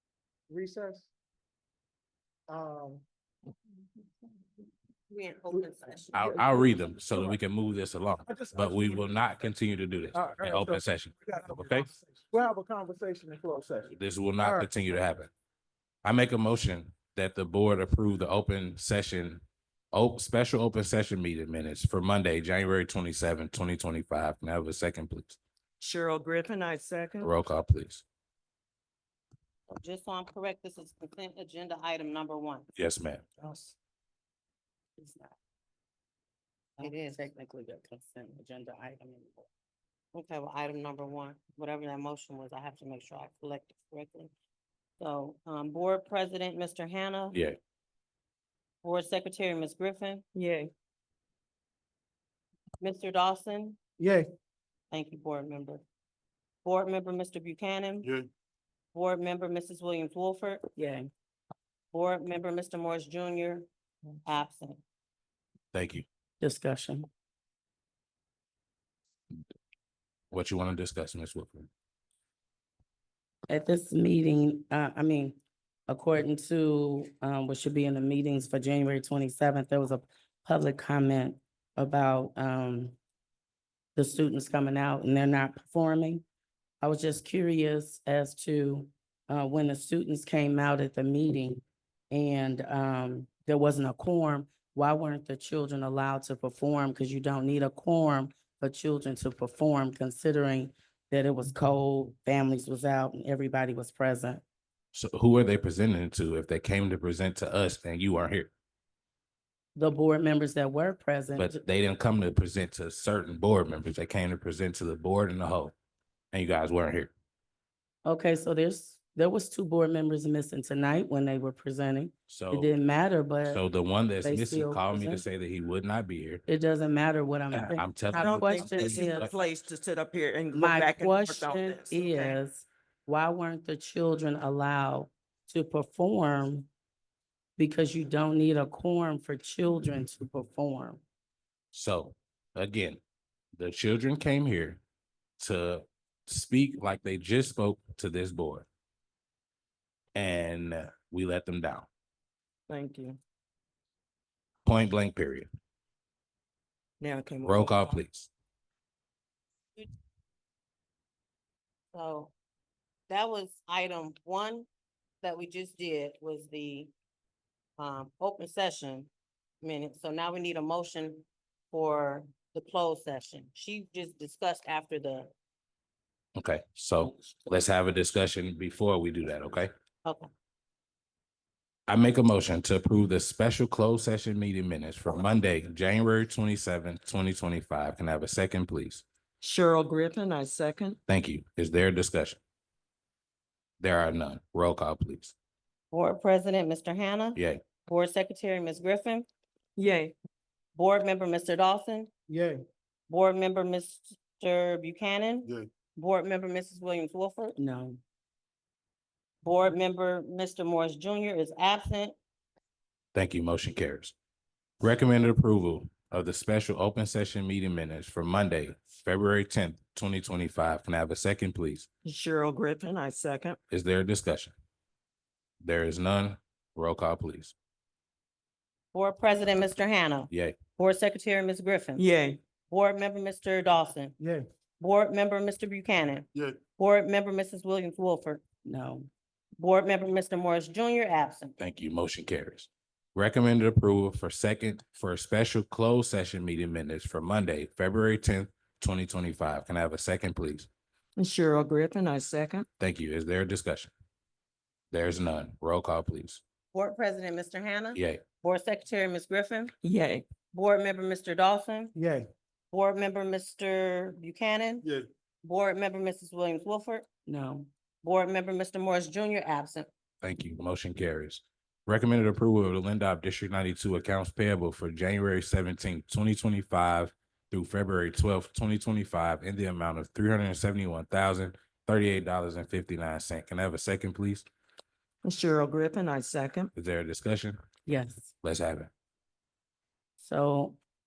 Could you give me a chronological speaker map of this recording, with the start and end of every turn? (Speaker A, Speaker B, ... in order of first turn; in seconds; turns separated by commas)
Speaker A: 0.5-1.1, Speaker A: 2.5-3.0, Speaker B: 5.1-6.1, Speaker A: 5.5-7.3, Speaker C: 6.1-11.9, Speaker A: 8.3-9.1, Speaker A: 10.1-14.7, Speaker C: 13.9-15.3, Speaker C: 16.0-25.4, Speaker D: 25.8-27.3, Speaker C: 27.2-28.0, Speaker B: 29.8-32.7, Speaker C: 32.8-33.2, Speaker E: 33.4-33.7, Speaker E: 35.0-35.3, Speaker E: 36.8-39.5, Speaker B: 36.8-37.2, Speaker B: 40.1-44.3, Speaker B: 45.0-47.4, Speaker B: 48.8-50.2, Speaker D: 50.3-50.7, Speaker B: 52.8-53.8, Speaker A: 54.0-54.3, Speaker B: 54.9-55.8, Speaker B: 56.6-58.1, Speaker B: 58.9-60.6, Speaker E: 60.8-61.0, Speaker B: 61.9-63.7, Speaker B: 64.2-64.8, Speaker C: 65.7-66.0, Speaker E: 66.4-67.1, Speaker C: 70.3-71.7, Speaker E: 73.5-83.0, Speaker E: 84.0-86.2, Speaker E: 86.8-104.4, Speaker C: 104.9-108.5, Speaker E: 109.7-111.6, Speaker C: 111.3-115.7, Speaker C: 116.3-117.1, Speaker E: 118.0-123.6, Speaker C: 122.3-122.8, Speaker C: 123.4-126.4, Speaker E: 124.2-125.2, Speaker E: 126.5-129.3, Speaker C: 127.5-129.4, Speaker D: 128.1-132.3, Speaker E: 130.5-136.7, Speaker E: 137.6-141.0, Speaker C: 141.7-143.0, Speaker C: 143.6-144.8, Speaker C: 145.4-148.7, Speaker C: 150.1-151.9, Speaker D: 152.7-153.2, Speaker C: 154.6-155.5, Speaker D: 157.0-158.0, Speaker C: 157.4-158.3, Speaker B: 161.9-162.3, Speaker B: 163.1-164.7, Speaker B: 165.2-166.9, Speaker B: 167.8-169.1, Speaker B: 169.6-175.3, Speaker C: 176.3-179.7, Speaker B: 180.0-180.3, Speaker C: 181.9-189.0, Speaker D: 189.4-191.0, Speaker C: 191.1-192.4, Speaker C: 193.8-195.3, Speaker B: 195.9-199.2, Speaker D: 199.8-200.1, Speaker B: 200.7-202.1, Speaker A: 202.3-202.6, Speaker B: 203.1-207.6, Speaker E: 207.6-208.0, Speaker B: 209.4-212.1, Speaker C: 213.1-214.1, Speaker C: 214.8-221.9, Speaker D: 222.0-223.6, Speaker C: 223.7-224.5, Speaker C: 225.6-227.5, Speaker B: 228.9-232.0, Speaker C: 230.3-230.6, Speaker D: 231.9-232.4, Speaker B: 232.7-234.1, Speaker B: 234.8-238.4, Speaker E: 238.6-239.1, Speaker B: 239.6-241.5, Speaker C: 241.6-250.7, Speaker D: 251.2-252.7, Speaker C: 252.8-253.9, Speaker C: 254.9-256.4, Speaker B: 256.7-259.7, Speaker C: 257.9-258.2, Speaker D: 259.8-260.3, Speaker B: 260.5-261.9, Speaker A: 261.9-262.2, Speaker B: 262.7-264.8, Speaker B: 265.4-267.1, Speaker E: 267.3-267.7, Speaker B: 268.0-269.9, Speaker C: 270.2-284.4, Speaker D: 285.2-286.7, Speaker C: 286.7-287.6, Speaker E: 287.9-288.3, Speaker C: 288.4-288.9, Speaker E: 290.2-290.8